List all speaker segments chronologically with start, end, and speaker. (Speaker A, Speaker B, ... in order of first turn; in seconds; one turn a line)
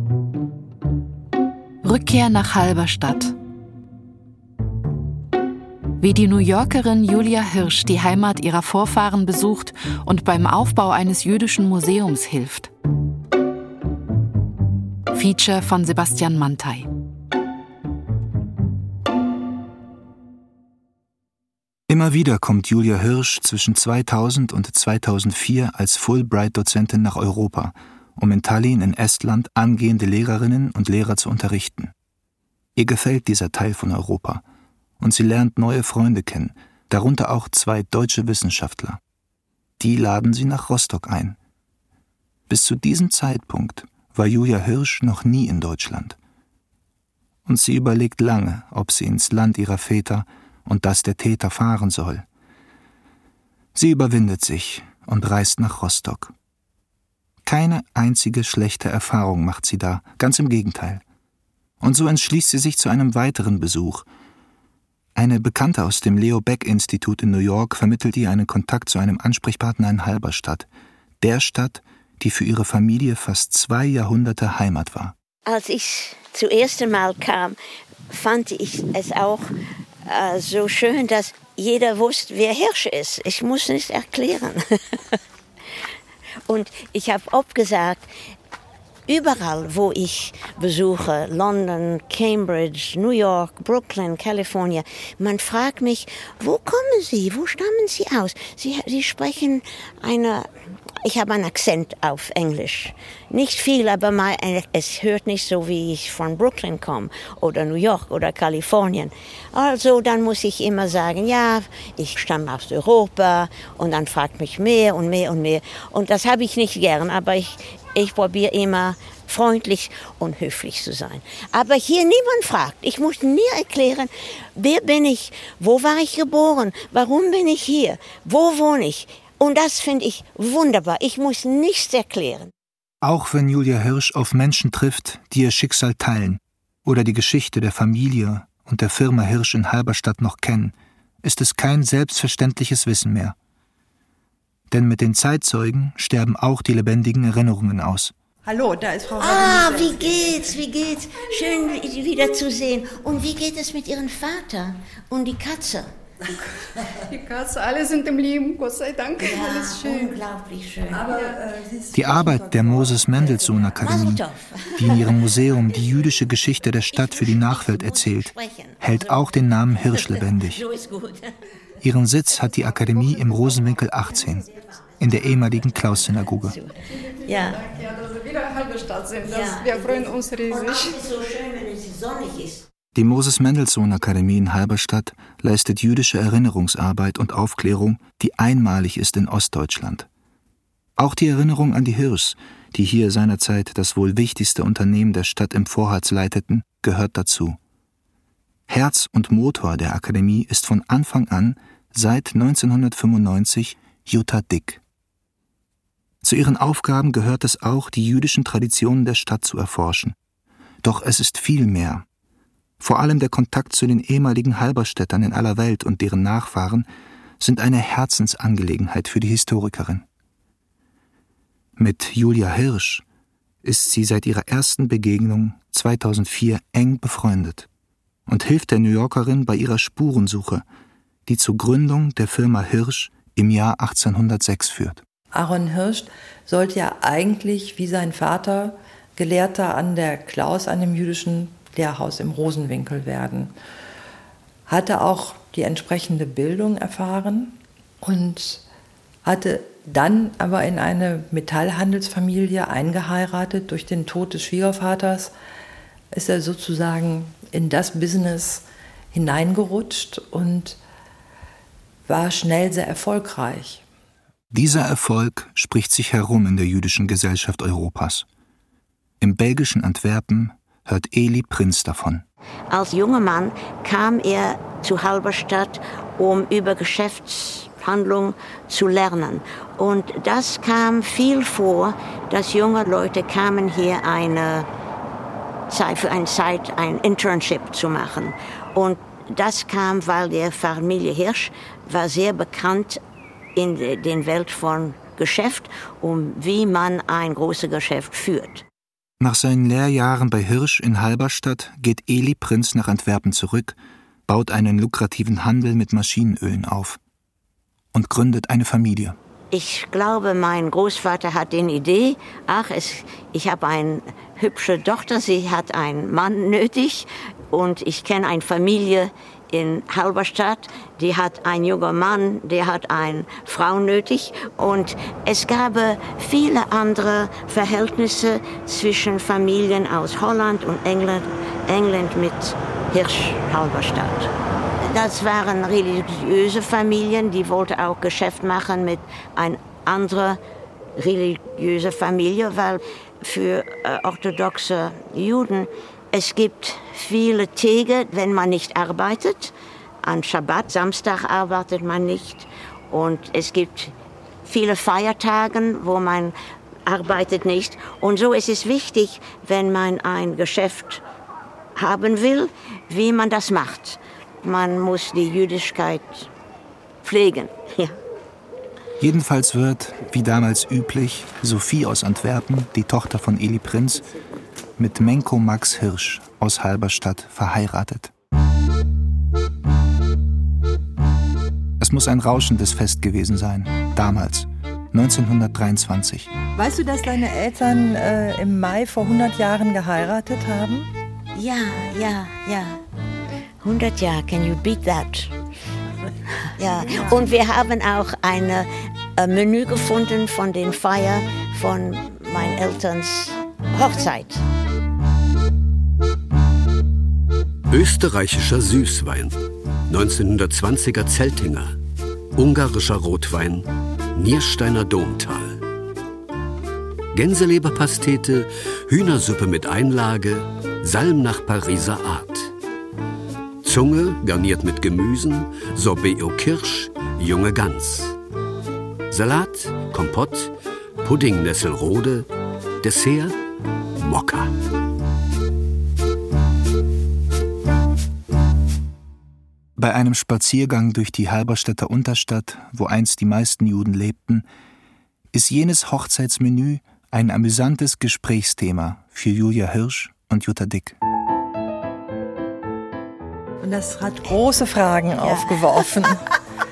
Speaker A: 1.8-3.3
Speaker A: 6.0-12.7
Speaker A: 15.1-16.9
Speaker B: 21.9-31.9
Speaker B: 32.8-34.4
Speaker B: 35.0-39.0
Speaker B: 39.8-41.4
Speaker B: 42.5-46.2
Speaker B: 47.5-52.2
Speaker B: 53.7-56.3
Speaker B: 57.4-61.0
Speaker B: 61.8-64.1
Speaker B: 65.1-70.7
Speaker B: 71.2-75.1
Speaker C: 75.5-77.6
Speaker C: 78.1-79.5
Speaker C: 80.0-85.2
Speaker C: 86.5-88.1
Speaker C: 89.1-100.5
Speaker C: 101.0-132.5
Speaker B: 133.0-143.3
Speaker B: 144.7-148.1
Speaker D: 148.4-150.6
Speaker C: 149.2-155.9
Speaker E: 157.1-160.2
Speaker C: 159.2-161.1
Speaker D: 160.9-163.8
Speaker B: 161.9-164.2
Speaker C: 163.8-165.1
Speaker B: 164.8-170.6
Speaker C: 166.9-169.1
Speaker C: 169.9-171.3
Speaker B: 171.8-176.6
Speaker C: 176.4-177.6
Speaker E: 176.9-181.0
Speaker C: 179.2-182.7
Speaker B: 182.9-190.1
Speaker B: 191.0-197.6
Speaker B: 198.7-204.8
Speaker B: 206.2-210.2
Speaker B: 210.8-212.0
Speaker B: 212.8-216.9
Speaker B: 217.4-220.0
Speaker B: 221.8-223.0
Speaker B: 223.6-227.7
Speaker B: 228.3-230.6
Speaker B: 231.2-235.0
Speaker D: 235.3-243.5
Speaker D: 244.7-248.6
Speaker D: 249.2-255.3
Speaker D: 256.1-260.8
Speaker D: 262.1-263.8
Speaker B: 264.5-268.2
Speaker B: 269.2-272.2
Speaker C: 272.7-284.7
Speaker C: 285.7-293.0
Speaker C: 293.6-298.6
Speaker B: 299.2-307.0
Speaker B: 307.9-309.2
Speaker C: 309.5-340.4
Speaker C: 341.0-361.0
Speaker C: 361.8-366.3
Speaker C: 367.0-368.0
Speaker B: 369.0-374.0
Speaker B: 374.8-378.1
Speaker B: 381.8-386.3
Speaker D: 386.6-390.9
Speaker C: 391.3-392.8
Speaker C: 393.6-395.4
Speaker C: 396.6-404.4
Speaker D: 396.7-397.3
Speaker F: 407.7-409.4
Speaker F: 409.9-411.8
Speaker F: 412.4-415.6
Speaker F: 417.1-422.5
Speaker F: 423.6-428.1
Speaker F: 429.1-432.3
Speaker F: 432.8-433.4
Speaker F: 434.0-434.5
Speaker B: 439.8-444.4
Speaker B: 445.3-451.0
Speaker D: 453.6-456.2
Speaker C: 455.2-455.5